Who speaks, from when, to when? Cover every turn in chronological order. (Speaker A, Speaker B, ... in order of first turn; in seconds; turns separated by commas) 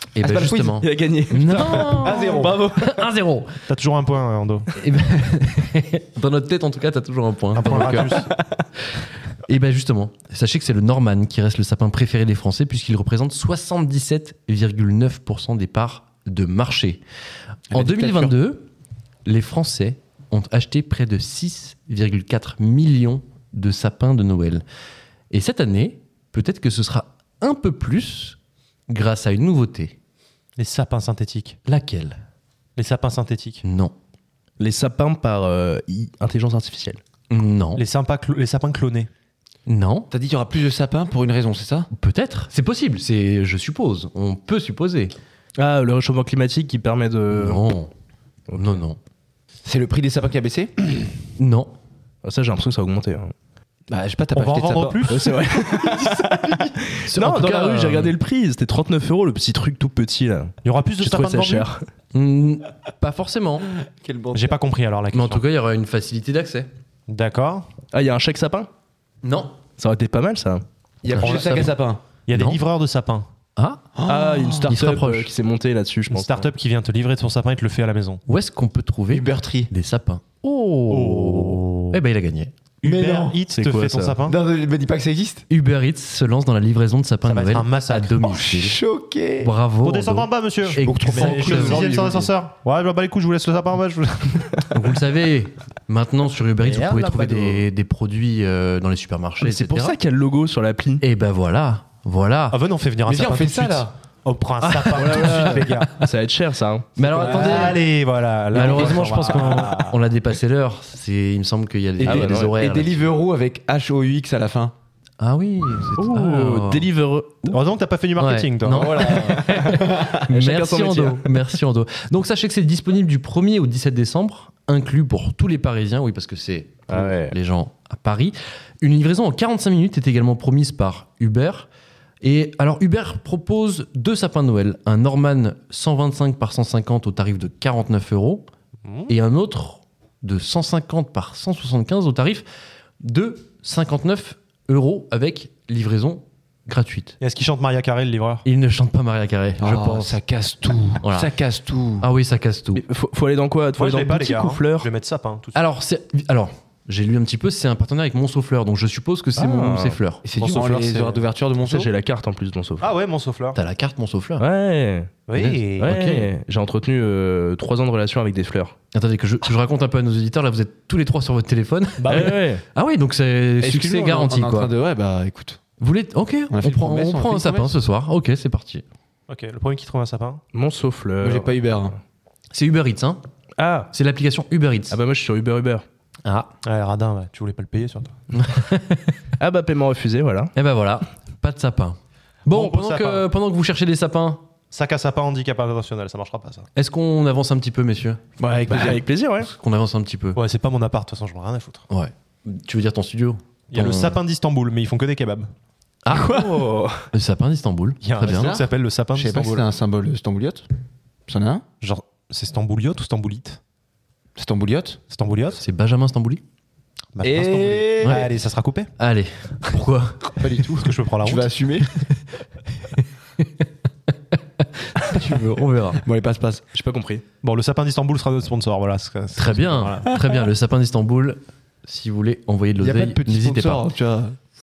Speaker A: 0.1-3.5, Speaker B: 0.2-0.8, Speaker C: 0.8-3.1, Speaker B: 1.5-2.7, Speaker D: 3.7-4.7, Speaker A: 4.8-8.2, Speaker D: 7.5-8.3, Speaker A: 8.9-17.0, Speaker B: 17.7-18.4, Speaker A: 17.7-18.7, Speaker A: 19.2-24.6, Speaker A: 25.3-28.4, Speaker A: 28.9-29.9, Speaker D: 30.6-31.6, Speaker A: 31.7-32.2, Speaker D: 32.8-33.6, Speaker A: 33.6-33.9, Speaker C: 34.6-37.0, Speaker A: 37.3-37.8, Speaker D: 37.8-39.1, Speaker A: 39.7-40.1, Speaker B: 40.1-41.9, Speaker A: 41.9-45.1, Speaker C: 45.6-47.6, Speaker A: 47.3-47.9, Speaker C: 48.5-48.8, Speaker A: 48.5-49.0, Speaker B: 49.6-51.1, Speaker A: 51.4-51.7, Speaker C: 52.2-53.3, Speaker B: 53.9-56.7, Speaker D: 54.3-55.3, Speaker C: 55.1-61.8, Speaker A: 57.1-58.1, Speaker D: 60.6-61.7, Speaker A: 62.1-63.7, Speaker B: 63.8-64.6, Speaker D: 64.3-65.4, Speaker A: 65.1-66.7, Speaker D: 67.1-67.6, Speaker C: 67.9-68.7, Speaker A: 69.2-69.5, Speaker C: 69.8-70.6, Speaker B: 71.0-72.0, Speaker A: 71.1-71.7, Speaker D: 71.2-71.7, Speaker D: 72.2-73.3, Speaker A: 72.3-72.6, Speaker A: 73.5-73.8, Speaker B: 74.0-74.7, Speaker C: 74.0-76.5, Speaker A: 74.7-75.3, Speaker D: 76.1-78.2, Speaker A: 78.3-82.5, Speaker B: 79.1-79.7, Speaker D: 80.9-82.0, Speaker D: 82.8-84.4, Speaker B: 82.8-83.4, Speaker C: 83.5-84.2, Speaker B: 84.2-85.4, Speaker A: 85.5-88.8, Speaker D: 87.2-88.2, Speaker B: 88.2-89.5, Speaker A: 89.4-91.9, Speaker D: 89.8-94.7, Speaker B: 90.8-92.3, Speaker A: 94.7-100.0, Speaker D: 96.6-97.7, Speaker C: 99.4-101.0, Speaker A: 101.0-102.6, Speaker D: 102.5-105.9, Speaker B: 103.1-103.9, Speaker A: 104.6-105.9, Speaker C: 104.9-107.7, Speaker A: 107.0-107.8, Speaker B: 107.0-107.8, Speaker D: 107.1-110.0, Speaker A: 108.5-113.0, Speaker B: 108.5-109.7, Speaker C: 112.0-112.5, Speaker B: 112.0-114.7, Speaker A: 115.2-116.9, Speaker C: 116.0-117.6, Speaker D: 117.5-119.0, Speaker A: 118.2-131.7, Speaker B: 118.7-120.2, Speaker C: 119.1-121.4, Speaker C: 126.9-127.3, Speaker A: 132.2-138.4, Speaker D: 138.8-139.1, Speaker A: 139.1-142.4, Speaker A: 143.0-147.2, Speaker D: 147.2-148.5, Speaker A: 148.4-150.2, Speaker B: 149.6-152.1, Speaker A: 151.0-151.3, Speaker A: 152.0-152.8, Speaker C: 152.8-154.9, Speaker D: 153.7-155.6, Speaker A: 155.5-160.2, Speaker C: 159.4-160.0, Speaker B: 160.2-161.9, Speaker D: 160.4-161.2, Speaker C: 161.6-162.9, Speaker D: 162.8-163.6, Speaker A: 163.5-164.4, Speaker C: 164.4-165.2, Speaker D: 165.3-166.0, Speaker A: 165.3-166.3, Speaker C: 165.8-168.7, Speaker A: 168.9-174.7, Speaker D: 172.0-172.4, Speaker C: 172.1-172.6, Speaker B: 173.6-175.6, Speaker A: 175.8-178.8, Speaker B: 176.5-177.7, Speaker D: 179.3-180.4, Speaker C: 180.5-181.5, Speaker B: 181.2-182.0, Speaker A: 182.5-183.2, Speaker C: 183.6-183.9, Speaker A: 183.9-185.0, Speaker C: 184.9-185.8, Speaker A: 186.2-186.5, Speaker D: 186.6-188.1, Speaker A: 188.3-189.2, Speaker C: 189.4-190.5, Speaker A: 190.6-194.4, Speaker D: 192.5-193.3, Speaker D: 194.7-196.7, Speaker A: 196.8-198.2, Speaker B: 198.4-199.0, Speaker C: 198.7-199.5, Speaker A: 198.8-200.4, Speaker D: 200.3-201.8, Speaker A: 201.9-204.2, Speaker D: 203.7-205.5, Speaker A: 206.1-206.5, Speaker C: 206.1-207.0, Speaker A: 207.1-208.6, Speaker D: 208.0-209.7, Speaker B: 208.2-210.7, Speaker B: 211.3-211.7, Speaker D: 211.8-213.6, Speaker B: 214.4-215.0, Speaker D: 215.1-215.6, Speaker A: 215.6-216.4, Speaker D: 217.2-218.9, Speaker B: 217.2-218.3, Speaker A: 218.0-218.3, Speaker A: 219.0-220.7, Speaker B: 220.4-221.9, Speaker D: 220.7-221.5, Speaker A: 223.4-223.6, Speaker A: 224.9-226.0, Speaker B: 225.0-226.6, Speaker C: 226.7-227.2, Speaker D: 227.4-230.2, Speaker A: 229.4-233.9, Speaker B: 232.8-234.4